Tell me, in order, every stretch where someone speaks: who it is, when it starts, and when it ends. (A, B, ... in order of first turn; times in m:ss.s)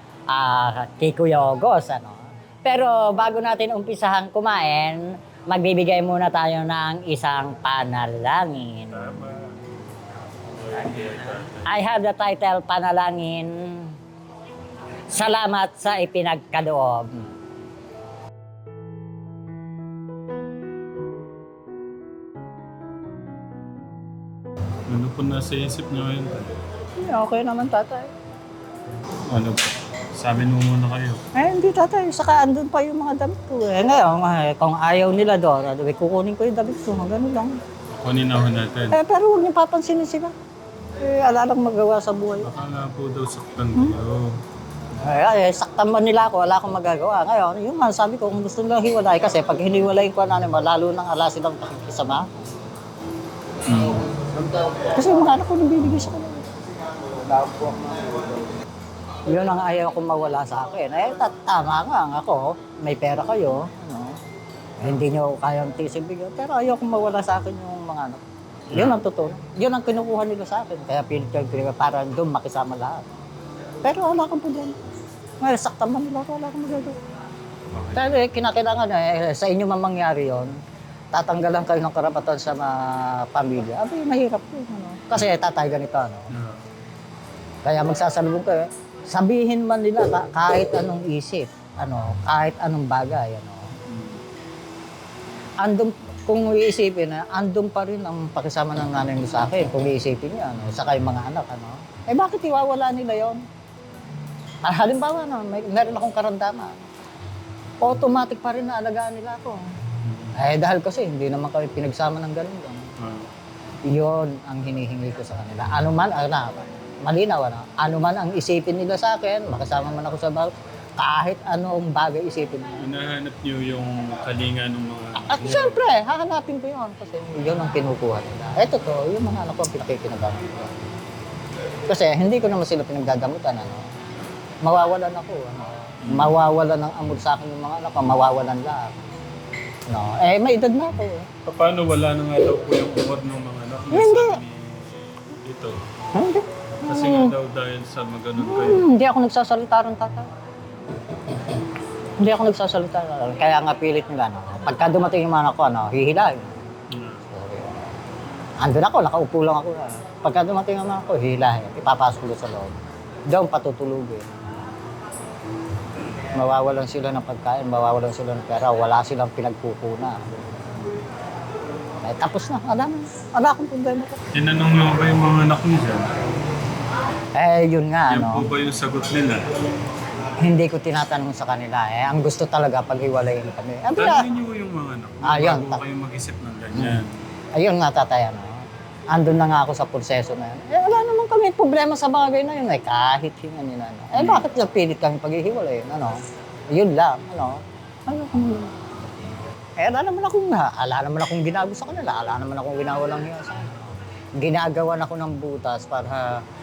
0:00.3-0:09.0 A
0:08.9-0:09.6 B
0:10.6-0:11.6 B
0:11.6-0:14.0 A
0:15.1-0:17.3 A
0:24.9-0:26.6 B
0:27.0-0:28.1 A
0:29.3-0:31.2 B
0:31.4-0:37.6 A
0:37.9-0:39.0 B
0:38.9-0:40.3 A
0:41.0-0:42.5 A
0:42.4-0:44.4 B
0:45.0-0:52.3 A
0:53.7-0:54.0 B
0:54.7-0:56.4 A
0:57.3-0:58.1 A
0:59.3-1:04.2 A
1:04.8-1:13.0 A
1:08.7-1:09.0 B
1:13.8-1:14.8 A
1:15.4-1:16.9 A
1:17.7-1:18.0 B
1:17.9-1:20.6 A
1:21.1-1:26.3 A
1:26.3-1:26.6 B
1:27.6-1:33.7 A
1:33.9-1:34.2 B
1:35.6-1:43.4 A
1:44.6-1:46.8 A
1:47.8-1:49.6 A
1:50.0-1:50.3 B
1:50.4-1:52.8 A
1:53.0-1:53.3 B
1:53.8-2:02.8 A
2:02.8-2:05.8 B
2:05.2-2:10.7 A
2:11.9-2:13.8 A
2:14.6-2:19.0 A
2:16.0-2:16.3 B
2:19.9-2:21.2 A
2:21.4-2:25.8 B
2:23.9-2:24.4 A
2:26.1-2:27.3 A
2:26.8-2:28.8 B
2:28.4-2:30.3 A
2:32.2-2:36.6 A
2:36.9-2:37.2 B
2:37.3-2:37.7 A
2:38.6-2:42.7 A
2:43.3-2:44.4 A
2:46.3-2:50.2 A
2:52.0-2:54.2 A
2:54.3-2:56.1 B
2:57.3-2:58.4 A
2:58.1-2:59.4 B
3:00.4-3:04.2 A
3:03.9-3:07.2 B
3:05.2-3:05.8 A
3:06.8-3:07.0 A
3:07.5-3:16.2 A
3:14.2-3:14.4 B
3:16.7-3:18.7 A
3:19.8-3:23.8 A
3:24.4-3:26.4 A